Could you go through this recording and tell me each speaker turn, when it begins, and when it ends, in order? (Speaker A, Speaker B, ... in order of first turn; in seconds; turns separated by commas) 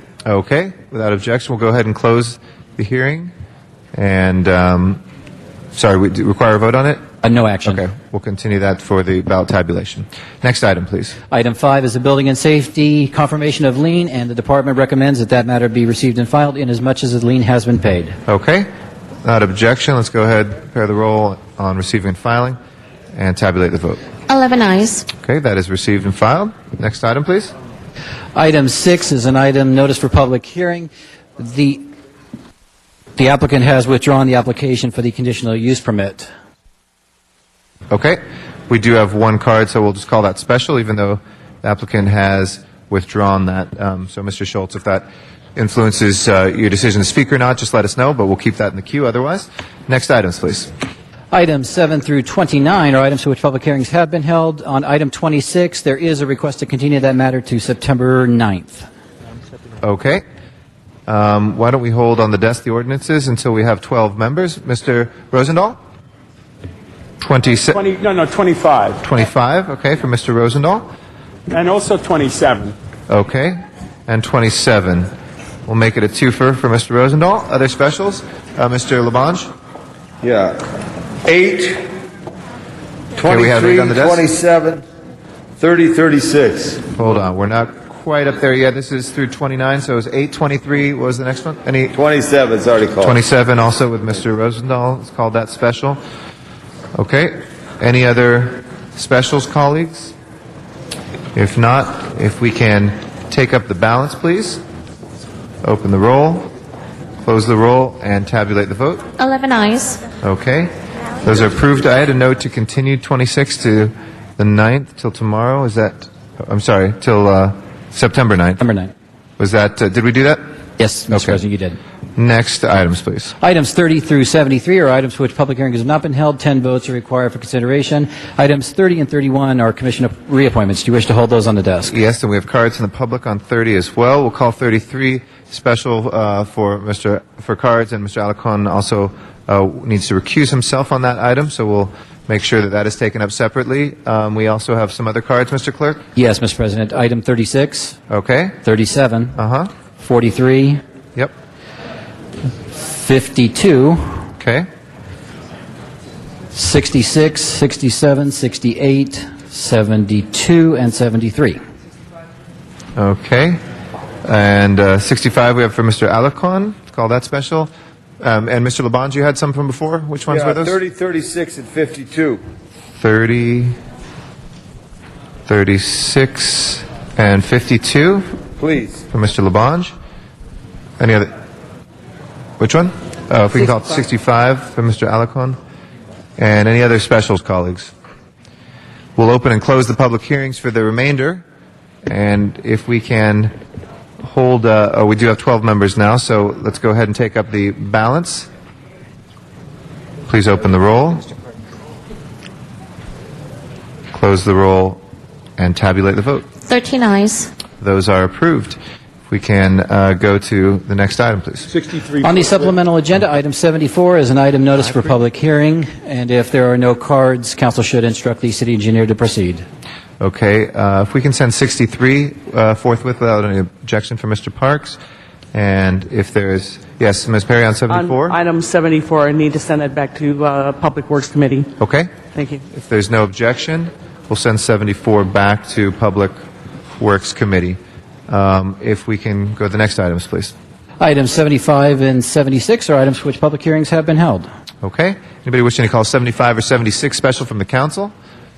Speaker A: 0.2-3.3, Speaker A: 3.9-5.0, Speaker A: 5.7-7.0, Speaker B: 7.2-7.8, Speaker A: 7.6-11.1, Speaker B: 11.3-18.2, Speaker A: 18.3-18.7, Speaker A: 19.2-22.6, Speaker A: 23.1-24.0, Speaker C: 24.3-25.1, Speaker A: 25.1-27.5, Speaker B: 28.3-31.9, Speaker B: 33.2-36.3, Speaker A: 37.9-50.7, Speaker B: 51.3-58.9, Speaker A: 59.8-60.2, Speaker A: 61.1-65.8, Speaker A: 67.2-67.8, Speaker D: 68.0-69.0, Speaker A: 69.0-70.9, Speaker D: 71.5-72.7, Speaker A: 73.1-75.1, Speaker A: 75.7-79.5, Speaker E: 80.2-80.6, Speaker E: 81.2-81.9, Speaker E: 83.2-84.8, Speaker A: 83.2-84.3, Speaker E: 85.6-86.9, Speaker A: 86.9-92.0, Speaker E: 91.9-93.2, Speaker A: 93.0-96.0, Speaker A: 96.9-100.1, Speaker A: 101.3-104.6, Speaker A: 105.6-106.5, Speaker A: 107.2-109.0, Speaker C: 109.2-110.0, Speaker A: 110.2-118.6, Speaker B: 118.6-118.9, Speaker A: 119.4-120.4, Speaker B: 120.8-121.8, Speaker A: 121.1-121.4, Speaker A: 122.2-123.3, Speaker B: 123.4-131.9, Speaker A: 131.9-146.0, Speaker B: 146.1-148.0, Speaker A: 148.1-148.6, Speaker B: 148.6-149.4, Speaker A: 149.3-149.7, Speaker B: 150.0-150.8, Speaker B: 152.7-154.2, Speaker A: 154.4-154.7, Speaker B: 156.5-161.6, Speaker A: 162.9-163.6, Speaker A: 164.2-170.8, Speaker E: 170.3-172.4, Speaker A: 173.0-173.8, Speaker A: 175.5-178.3, Speaker E: 178.6-179.0, Speaker A: 179.1-179.9, Speaker A: 181.0-181.3, Speaker A: 182.6-185.6, Speaker A: 186.4-187.9, Speaker A: 189.2-191.4, Speaker A: 192.1-193.5, Speaker A: 194.2-198.5, Speaker A: 200.3-201.3, Speaker A: 204.1-205.0, Speaker A: 205.6-206.5, Speaker C: 206.7-207.5, Speaker A: 207.8-208.8, Speaker A: 209.3-211.7, Speaker E: 211.9-212.1, Speaker B: 212.2-219.6, Speaker A: 220.2-225.0, Speaker A: 225.5-228.4, Speaker F: 227.9-231.7, Speaker A: 231.8-232.1, Speaker F: 232.3-232.6, Speaker A: 232.7-236.4, Speaker A: 237.0-240.5, Speaker B: 241.0-244.5, Speaker A: 244.8-248.1